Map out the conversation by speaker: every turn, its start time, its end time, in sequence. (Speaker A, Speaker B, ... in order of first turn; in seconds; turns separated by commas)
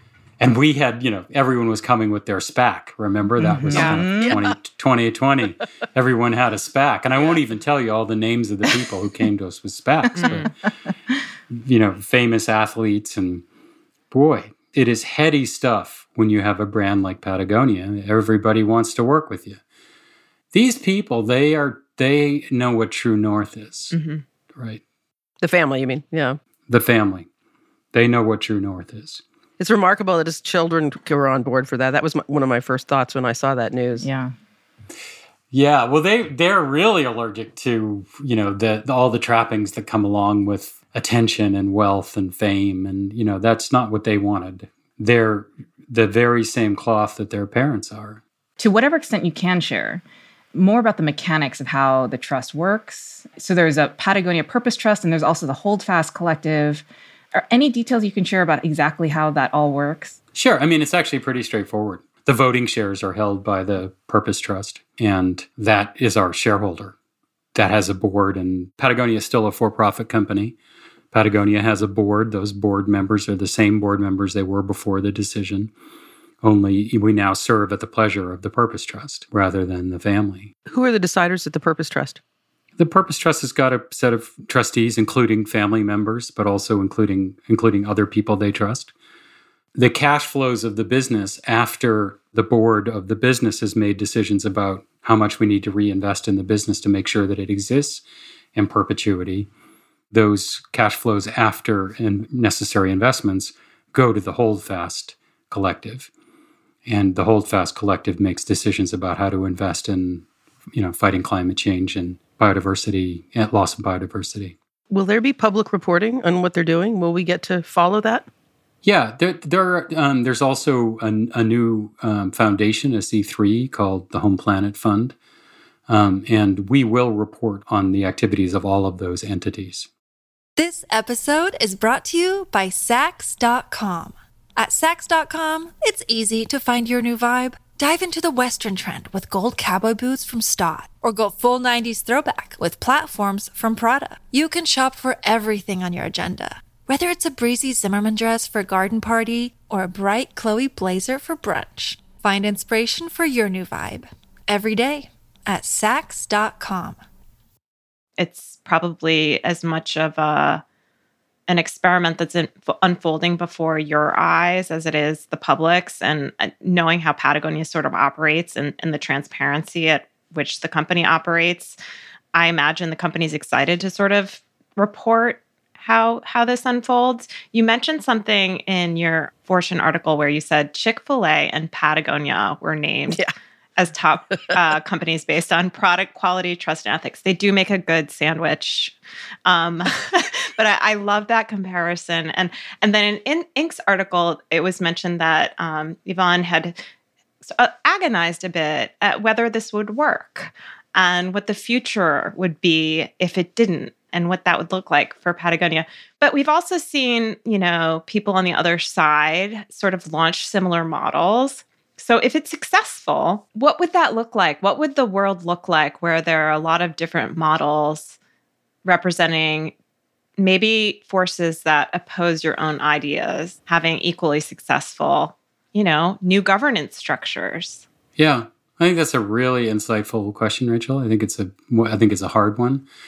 Speaker A: 0.4-10.5, Speaker B: 3.4-4.4, Speaker C: 3.7-4.0, Speaker D: 3.7-4.5, Speaker C: 10.2-10.5, Speaker A: 11.5-13.4, Speaker A: 14.1-19.6, Speaker A: 20.5-23.9, Speaker C: 23.9-24.2, Speaker A: 24.5-24.8, Speaker D: 25.4-26.4, Speaker A: 26.7-27.3, Speaker A: 27.9-29.2, Speaker D: 29.6-34.1, Speaker B: 34.0-34.3, Speaker A: 35.5-48.2, Speaker B: 48.6-50.0, Speaker B: 50.5-60.2, Speaker A: 60.3-66.9, Speaker A: 67.5-70.5, Speaker A: 71.1-75.7, Speaker A: 76.4-80.5, Speaker D: 80.7-82.2, Speaker A: 82.8-88.9, Speaker A: 89.8-98.0, Speaker A: 98.5-99.5, Speaker A: 100.1-106.1, Speaker A: 106.8-114.5, Speaker D: 114.9-118.3, Speaker A: 118.8-125.2, Speaker A: 125.9-129.9, Speaker E: 130.6-157.0, Speaker C: 158.2-160.6, Speaker C: 161.5-171.8, Speaker C: 172.3-183.2, Speaker C: 183.8-188.9, Speaker C: 189.4-196.8, Speaker C: 197.4-218.2, Speaker C: 218.8-219.7, Speaker C: 220.4-227.8, Speaker A: 228.2-232.9